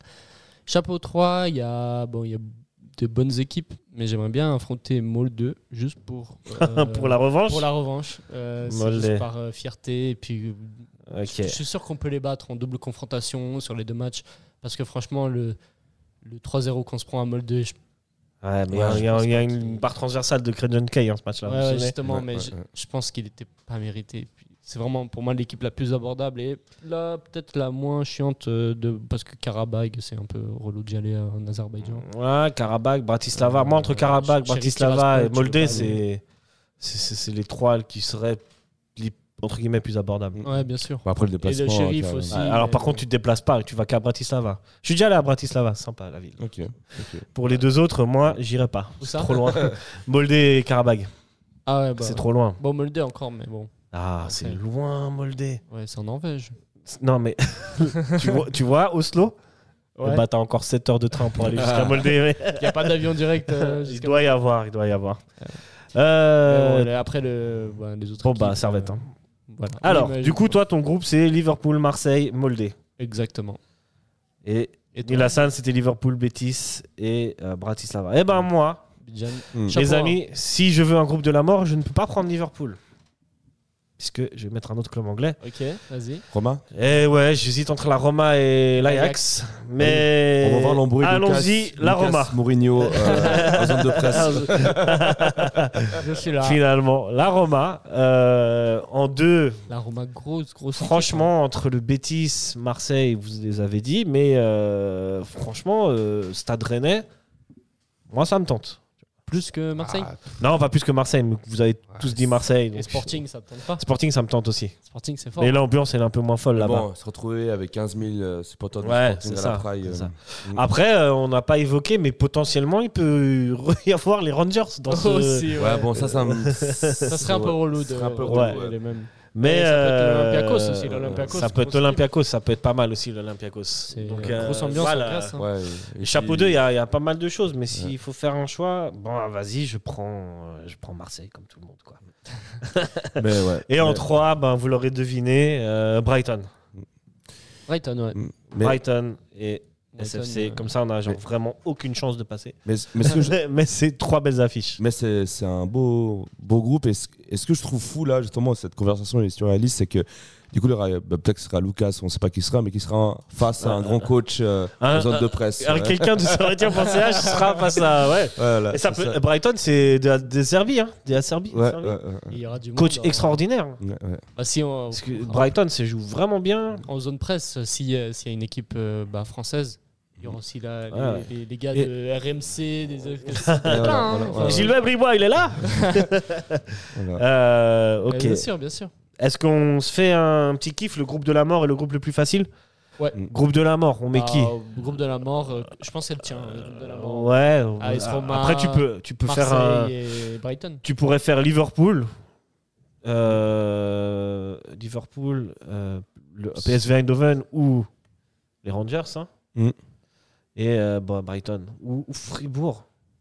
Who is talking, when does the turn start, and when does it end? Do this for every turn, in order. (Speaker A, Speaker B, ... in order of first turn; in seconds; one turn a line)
Speaker A: 0.7-15.6
Speaker B: 6.5-7.7
Speaker B: 8.7-9.3
Speaker B: 11.1-11.6
Speaker A: 16.2-17.8
Speaker B: 18.4-21.9
Speaker A: 18.7-19.9
Speaker A: 21.5-32.1
Speaker C: 22.1-22.6
Speaker B: 31.8-36.2
Speaker A: 33.3-36.0
Speaker B: 36.8-38.4
Speaker B: 39.0-40.5
Speaker C: 40.4-42.4
Speaker A: 40.4-43.0
Speaker B: 42.3-46.4
Speaker C: 46.4-47.2
Speaker B: 47.3-51.1
Speaker A: 49.0-49.5
Speaker C: 49.5-49.8
Speaker A: 51.7-53.7
Speaker B: 52.0-52.6
Speaker B: 53.9-55.6
Speaker A: 54.2-54.6
Speaker A: 55.7-56.5
Speaker B: 56.9-59.4
Speaker A: 60.0-60.3
Speaker B: 60.0-65.2
Speaker A: 61.4-64.3
Speaker B: 65.9-66.9
Speaker A: 66.5-70.6
Speaker B: 68.2-69.0
Speaker B: 69.8-72.8
Speaker A: 73.0-73.6
Speaker B: 74.4-78.8
Speaker A: 74.9-75.5
Speaker A: 79.0-80.2
Speaker B: 79.7-82.8
Speaker B: 84.0-85.4
Speaker A: 85.4-86.2
Speaker C: 86.3-86.6
Speaker B: 86.7-99.6
Speaker A: 88.8-89.3
Speaker C: 89.8-95.0
Speaker A: 93.0-94.6
Speaker A: 95.9-96.6
Speaker A: 99.7-101.3
Speaker B: 100.8-107.1
Speaker B: 108.1-108.8
Speaker A: 109.3-110.2
Speaker C: 109.8-110.2
Speaker B: 110.4-113.2
Speaker A: 112.7-113.8
Speaker B: 113.8-114.8
Speaker A: 114.9-115.6
Speaker B: 115.4-116.9
Speaker C: 116.5-120.6
Speaker B: 118.8-127.0
Speaker A: 124.9-126.2
Speaker C: 125.5-128.8
Speaker A: 127.1-132.1
Speaker B: 128.3-128.6
Speaker B: 129.3-135.4
Speaker C: 130.9-131.5
Speaker A: 133.9-135.5
Speaker C: 134.1-136.6
Speaker B: 136.0-142.0
Speaker B: 142.6-146.5
Speaker C: 143.2-144.1
Speaker A: 147.7-148.2
Speaker C: 148.2-148.8
Speaker B: 148.5-154.8
Speaker A: 149.9-150.7
Speaker C: 152.7-153.4
Speaker C: 154.8-166.6
Speaker B: 163.6-164.1
Speaker B: 164.8-172.0
Speaker C: 168.4-169.2
Speaker C: 171.5-172.4
Speaker A: 172.3-173.4
Speaker B: 172.8-173.8
Speaker C: 173.8-174.2
Speaker A: 174.4-175.5
Speaker B: 174.9-176.8
Speaker A: 176.8-184.8
Speaker B: 180.9-181.9
Speaker B: 183.3-186.6
Speaker C: 183.6-184.7
Speaker A: 185.6-186.1
Speaker C: 186.9-187.2
Speaker B: 187.2-188.5
Speaker A: 188.1-188.9
Speaker B: 189.2-192.5
Speaker B: 193.2-194.6
Speaker A: 194.1-200.8
Speaker B: 196.8-200.0
Speaker B: 200.8-202.1
Speaker B: 203.0-207.9
Speaker B: 208.6-209.3
Speaker B: 210.6-212.9